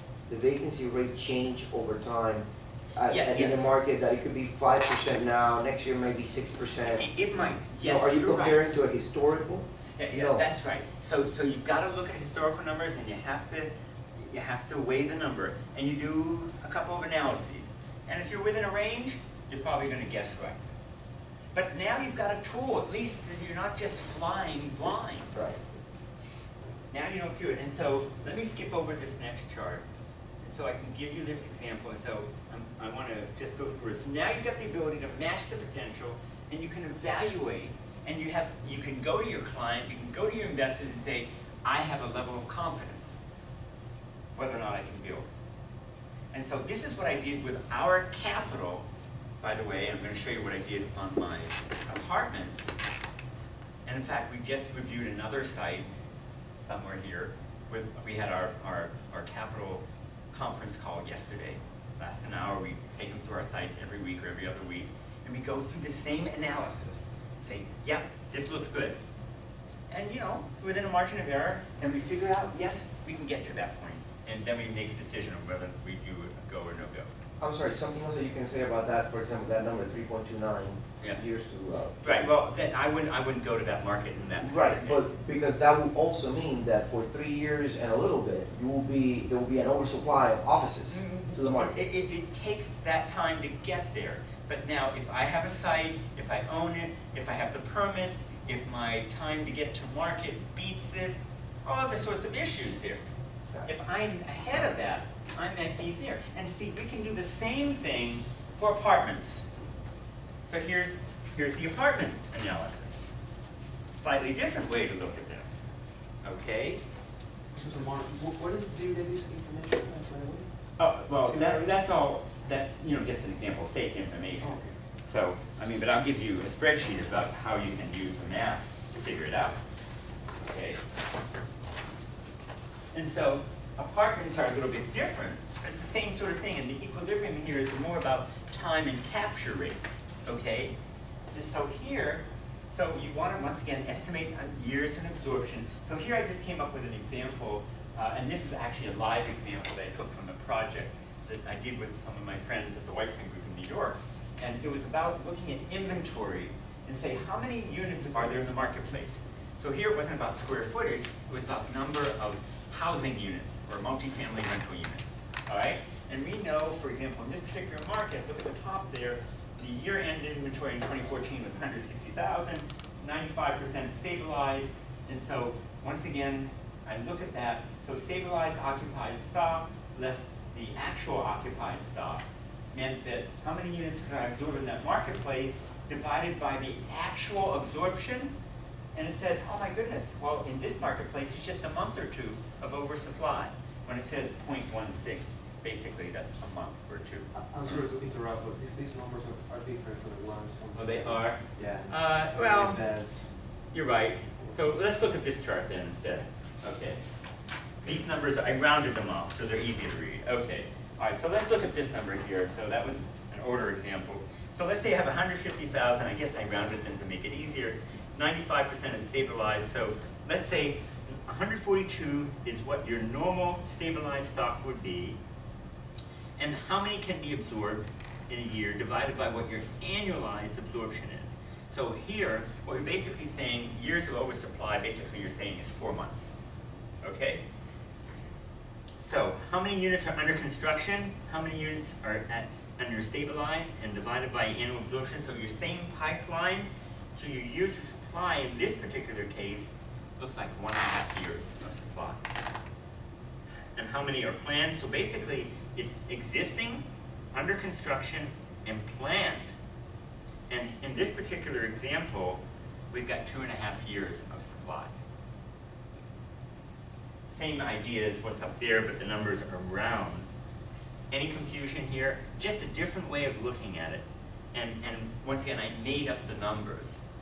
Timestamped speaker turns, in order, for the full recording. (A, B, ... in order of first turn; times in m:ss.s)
0:00.2-0:07.1 A
0:03.1-0:03.7 B
0:06.9-0:08.6 B
0:07.8-0:10.4 A
0:10.0-0:20.7 B
0:21.5-0:25.4 B
0:25.3-0:25.6 A
0:26.9-0:29.8 B
0:30.4-0:43.2 B
0:44.3-0:45.3 B
0:46.3-0:48.8 B
0:49.4-0:52.7 B
0:53.8-0:55.9 B
0:56.6-1:09.0 B
1:09.9-1:17.1 B
1:17.4-1:22.3 A
1:22.0-1:25.0 B
1:24.4-1:31.7 A
1:30.9-1:43.0 B
1:43.6-1:49.5 B
1:50.4-1:53.0 B
1:53.9-1:55.6 B
1:56.2-1:56.8 B
1:57.5-2:00.5 C
2:00.8-2:09.6 B
2:01.1-2:01.7 C
2:04.4-2:04.7 C
2:10.4-2:10.8 B
2:12.9-2:20.8 B
2:21.3-3:08.3 B
3:08.9-3:17.9 B
3:17.3-3:23.3 C
3:20.7-3:22.8 B
3:23.7-3:27.0 B
3:27.8-3:45.2 B
3:46.4-3:56.3 B
3:57.0-3:57.4 B
3:59.0-4:12.2 B
4:13.7-4:19.5 B
4:20.5-4:24.9 B
4:27.3-4:30.3 B
4:31.1-4:37.0 B